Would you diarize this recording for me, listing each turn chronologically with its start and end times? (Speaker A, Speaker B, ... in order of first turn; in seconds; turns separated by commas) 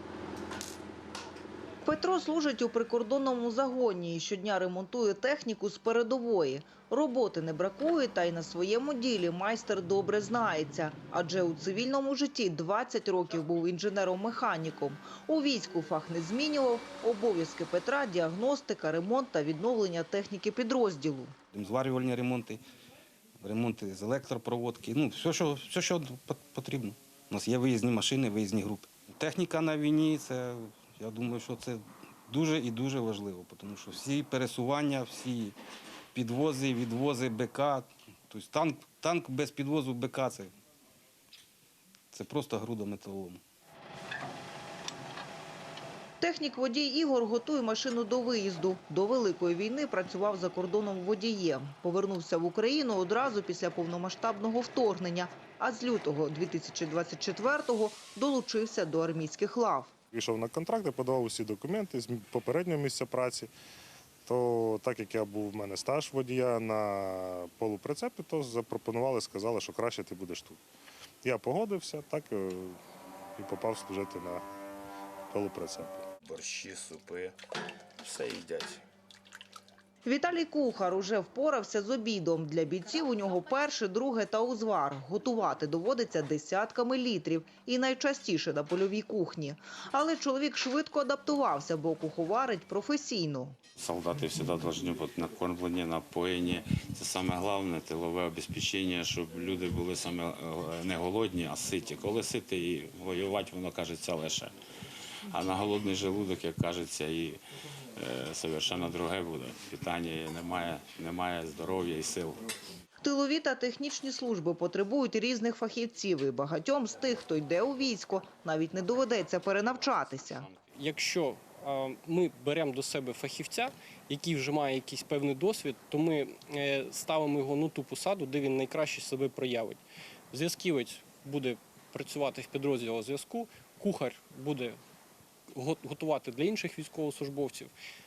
Speaker A: 1.8-21.3, Speaker B: 21.5-22.6, Speaker B: 23.4-35.6, Speaker B: 36.1-40.5, Speaker B: 42.1-43.4, Speaker A: 46.2-59.9, Speaker C: 60.1-63.5, Speaker C: 64.2-70.6, Speaker C: 71.2-72.8, Speaker C: 73.4-74.4, Speaker C: 75.3-76.0, Speaker D: 76.3-77.3, Speaker D: 78.0-78.8, Speaker A: 80.0-93.5, Speaker D: 93.8-104.5, Speaker D: 105.3-107.4, Speaker D: 107.9-112.5, Speaker A: 113.0-120.5, Speaker D: 120.3-120.5, Speaker E: 120.7-134.8, Speaker E: 135.5-137.7